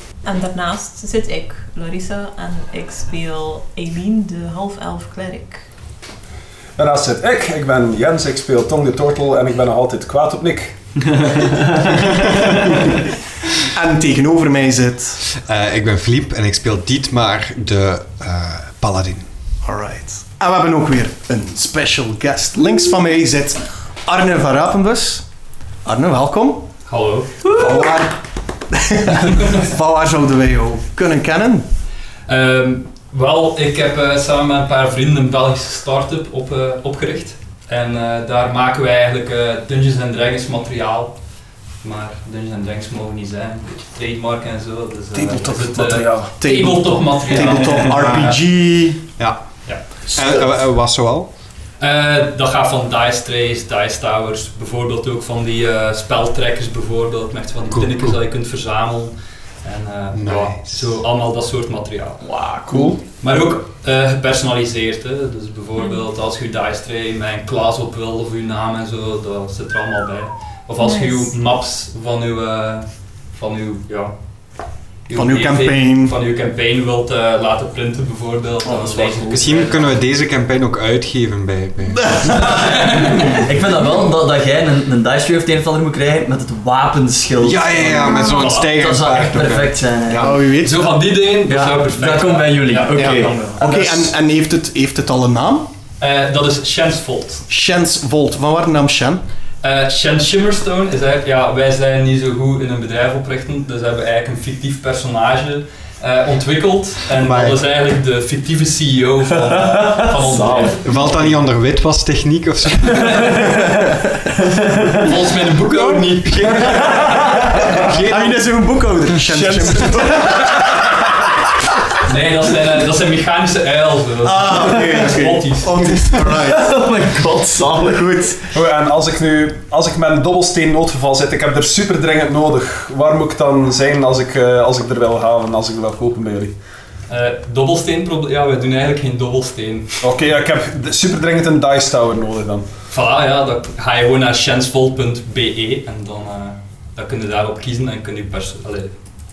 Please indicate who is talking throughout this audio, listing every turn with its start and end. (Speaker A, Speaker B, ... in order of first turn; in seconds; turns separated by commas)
Speaker A: 0.2-5.6, Speaker B: 6.8-10.8, Speaker C: 12.3-13.0, Speaker C: 13.6-15.3, Speaker D: 15.3-19.3, Speaker C: 19.6-25.2, Speaker C: 25.8-26.7, Speaker E: 26.9-27.4, Speaker C: 27.5-31.7, Speaker E: 32.3-41.2, Speaker E: 41.8-48.4, Speaker B: 45.1-46.3, Speaker C: 46.4-49.1, Speaker D: 48.0-48.4, Speaker D: 50.1-51.3, Speaker E: 51.8-62.3, Speaker D: 57.8-58.1, Speaker D: 60.1-61.0, Speaker F: 62.2-63.0, Speaker B: 62.7-63.0, Speaker E: 63.2-74.2, Speaker A: 70.8-71.3, Speaker E: 75.1-79.9, Speaker C: 75.1-76.2, Speaker F: 78.6-79.4, Speaker D: 79.3-82.4, Speaker C: 82.1-82.6, Speaker E: 82.5-83.4, Speaker F: 83.3-90.5, Speaker D: 87.4-90.3, Speaker A: 88.1-88.5, Speaker E: 88.2-88.7, Speaker C: 90.2-91.0, Speaker E: 90.6-94.0, Speaker F: 91.5-93.9, Speaker C: 93.0-95.7, Speaker E: 96.0-97.5, Speaker C: 97.5-99.2, Speaker E: 99.6-110.8, Speaker D: 107.2-107.6, Speaker F: 109.6-110.8, Speaker D: 110.8-113.3, Speaker E: 115.0-117.3, Speaker D: 115.7-118.4, Speaker C: 118.0-121.0, Speaker B: 119.3-119.8, Speaker E: 122.1-126.0, Speaker C: 124.2-126.8, Speaker F: 126.1-128.4, Speaker B: 128.5-136.6, Speaker E: 137.1-140.0, Speaker B: 140.0-142.7, Speaker E: 142.9-149.0